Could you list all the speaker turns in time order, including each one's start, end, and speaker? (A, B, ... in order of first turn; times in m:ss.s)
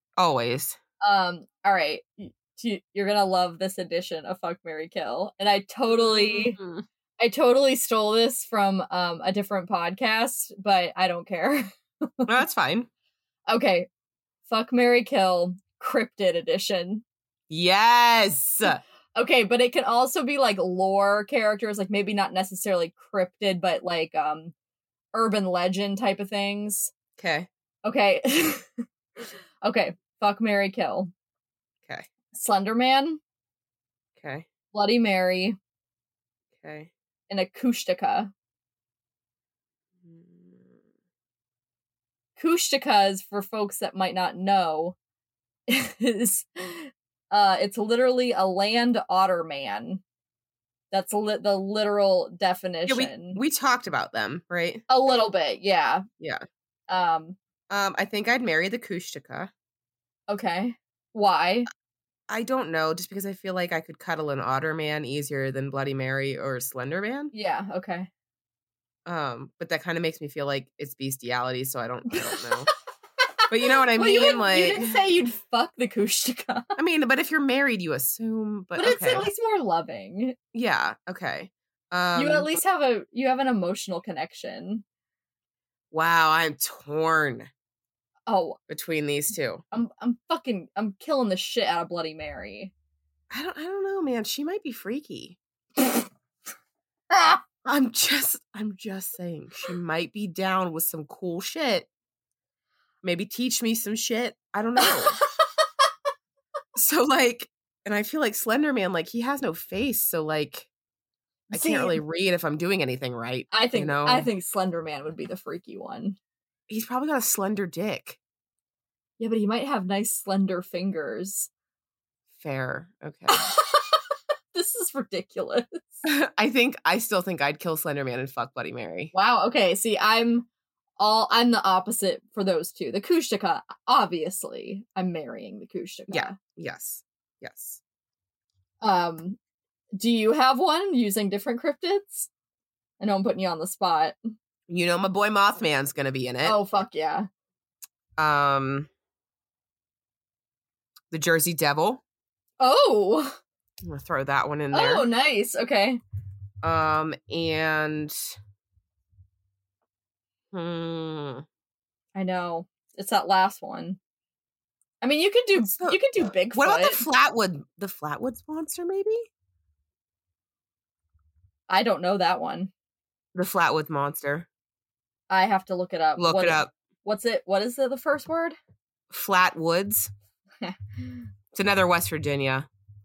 0:00.2-0:00.8 A
0:01.0-0:06.6 B
0:05.9-0:06.8 A
0:07.2-0:12.3 B
0:12.2-0:12.9 A
0:13.5-0:13.9 B
0:14.5-0:17.0 B
0:17.5-0:18.8 A
0:18.7-0:24.5 B
0:25.1-0:26.9 B
0:27.2-0:27.5 A
0:27.8-0:31.1 B
0:32.3-0:33.2 B
0:34.2-0:34.4 A
0:34.7-0:35.6 B
0:36.6-0:36.9 A
0:37.3-0:38.3 B
0:40.0-0:40.8 A
0:42.4-0:45.0 B
0:45.7-0:50.0 B
0:50.9-0:53.4 B
0:52.9-0:54.8 A
0:54.9-0:56.0 B
0:56.2-0:56.4 A
0:56.9-0:57.4 B
0:57.7-0:59.5 A
1:00.3-1:01.7 B
1:02.3-1:07.3 A
1:07.3-1:08.1 B
1:09.0-1:12.7 A
1:12.1-1:12.5 B
1:13.5-1:14.9 A
1:13.9-1:16.6 B
1:16.8-1:19.3 A
1:18.8-1:20.4 B
1:20.5-1:22.5 A
1:22.1-1:24.8 B
1:25.9-1:27.5 A
1:28.3-1:28.6 B
1:28.7-1:29.6 A
1:29.7-1:32.7 B
1:33.3-1:35.4 A
1:37.1-1:37.4 B
1:37.6-1:41.9 A
1:43.0-1:45.2 A
1:46.8-1:50.7 A
1:51.5-1:52.0 B
1:51.5-1:54.3 A
1:53.5-1:56.2 B
1:56.7-1:58.2 A
1:59.2-2:01.5 B
2:02.3-2:03.5 A
2:03.3-2:04.0 B
2:04.5-2:06.0 B
2:06.0-2:09.1 A
2:09.1-2:10.5 B
2:11.0-2:16.4 B
2:16.1-2:17.8 A
2:18.8-2:19.4 B
2:20.0-2:22.3 B
2:23.0-2:24.2 B
2:24.7-2:26.6 A
2:26.4-2:27.3 B
2:28.2-2:28.9 A
2:31.1-2:32.0 A
2:32.6-2:33.4 B
2:33.8-2:35.1 A
2:34.7-2:36.0 B
2:36.6-2:38.4 A
2:40.5-2:41.4 A
2:42.1-2:44.0 B
2:45.0-2:47.0 B
2:45.6-2:49.3 A
2:51.7-2:52.7 B
2:53.3-2:54.5 A
2:55.3-2:58.6 B
2:56.2-2:56.7 A
2:59.1-3:00.1 A
3:00.6-3:01.2 B
3:01.5-3:02.7 A